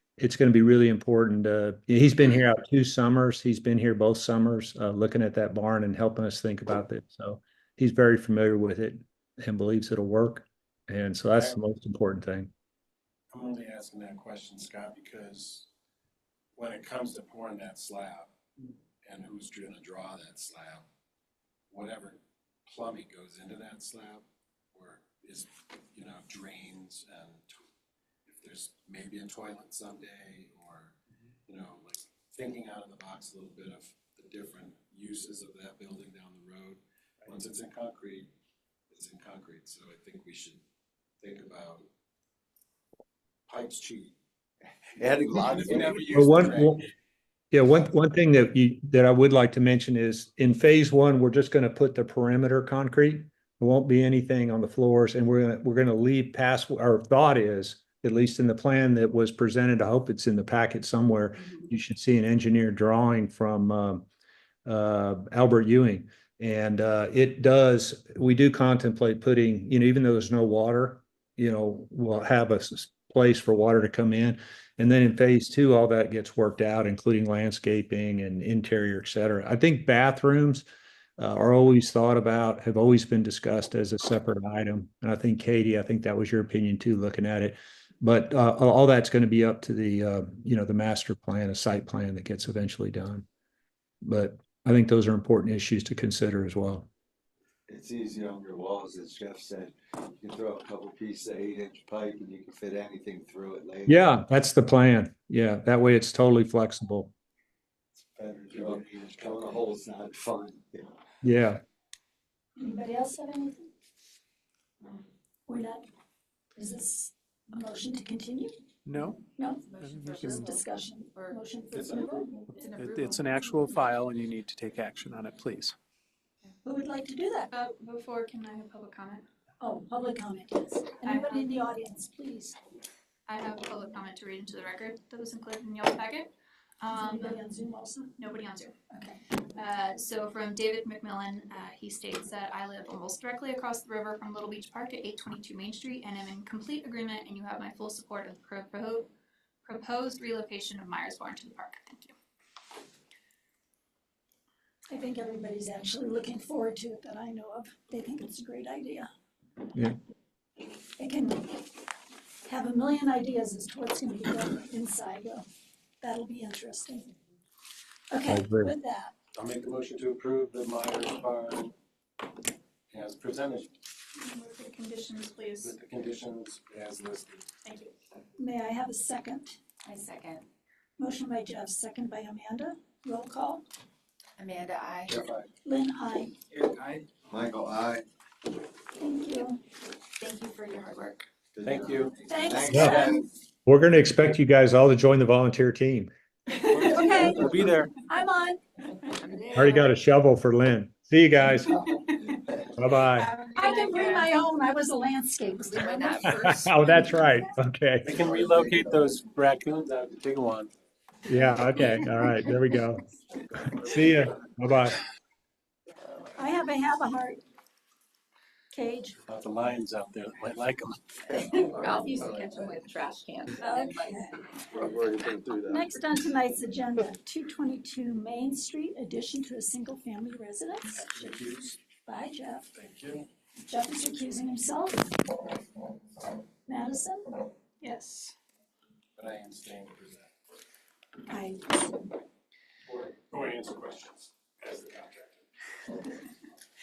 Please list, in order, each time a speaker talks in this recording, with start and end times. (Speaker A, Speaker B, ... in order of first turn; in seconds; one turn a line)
Speaker A: 0.2-12.5
Speaker B: 13.3-15.7
Speaker B: 16.6-18.3
Speaker B: 19.1-20.9
Speaker B: 21.7-27.6
Speaker B: 28.3-30.9
Speaker B: 31.5-36.8
Speaker B: 37.3-38.3
Speaker B: 38.9-40.6
Speaker B: 41.2-41.9
Speaker C: 43.7-44.1
Speaker C: 45.0-46.1
Speaker B: 45.4-46.9
Speaker A: 46.1-46.8
Speaker A: 47.5-64.0
Speaker A: 64.7-80.6
Speaker A: 81.2-93.3
Speaker A: 94.0-96.9
Speaker C: 97.7-104.0
Speaker A: 103.9-107.1
Speaker B: 108.2-109.6
Speaker C: 108.5-110.9
Speaker A: 111.2-111.6
Speaker D: 112.6-113.7
Speaker D: 115.5-115.8
Speaker D: 116.6-118.5
Speaker E: 118.8-119.2
Speaker D: 119.3-119.7
Speaker F: 119.6-121.8
Speaker E: 119.9-120.4
Speaker D: 120.3-122.8
Speaker B: 121.7-122.2
Speaker F: 122.5-123.3
Speaker E: 122.5-125.8
Speaker D: 126.6-127.5
Speaker G: 127.5-129.3
Speaker D: 129.6-132.6
Speaker G: 131.0-131.6
Speaker G: 133.3-137.4
Speaker D: 136.9-138.1
Speaker G: 138.2-138.8
Speaker D: 138.9-139.2
Speaker G: 139.6-149.1
Speaker G: 149.6-152.1
Speaker D: 154.9-159.1
Speaker D: 161.0-161.7
Speaker D: 162.5-165.4
Speaker D: 166.0-167.1
Speaker D: 168.1-169.1
Speaker A: 168.3-168.7
Speaker B: 169.3-171.7
Speaker B: 172.9-173.8
Speaker G: 174.2-175.8
Speaker B: 175.6-177.5
Speaker G: 177.6-177.9
Speaker D: 178.4-179.6
Speaker F: 179.8-180.5
Speaker D: 181.0-183.7
Speaker F: 184.4-185.2
Speaker B: 185.1-185.5
Speaker D: 185.6-186.3
Speaker C: 187.3-188.0
Speaker D: 189.0-189.6
Speaker F: 190.2-191.2
Speaker C: 191.5-193.3
Speaker B: 191.6-192.2
Speaker D: 192.3-193.2
Speaker A: 192.7-193.0
Speaker A: 193.7-196.1
Speaker D: 196.7-197.5
Speaker B: 196.7-197.9
Speaker D: 198.1-198.6
Speaker F: 199.2-200.0
Speaker A: 199.5-201.8
Speaker A: 202.7-203.3
Speaker G: 203.1-204.3
Speaker D: 203.6-206.4
Speaker F: 205.7-207.1
Speaker A: 206.2-208.2
Speaker B: 208.0-210.7
Speaker A: 211.3-213.1
Speaker A: 213.6-215.0
Speaker D: 216.4-217.4
Speaker D: 218.7-219.2
Speaker B: 219.3-221.7
Speaker F: 221.3-224.1
Speaker D: 223.6-224.4
Speaker C: 224.7-225.9
Speaker D: 225.7-231.0
Speaker B: 231.0-231.8
Speaker D: 232.1-232.7
Speaker B: 232.8-233.3
Speaker D: 233.7-235.2
Speaker D: 236.7-237.4
Speaker G: 237.8-238.3
Speaker B: 239.2-240.3
Speaker D: 241.3-242.0
Speaker B: 242.9-245.4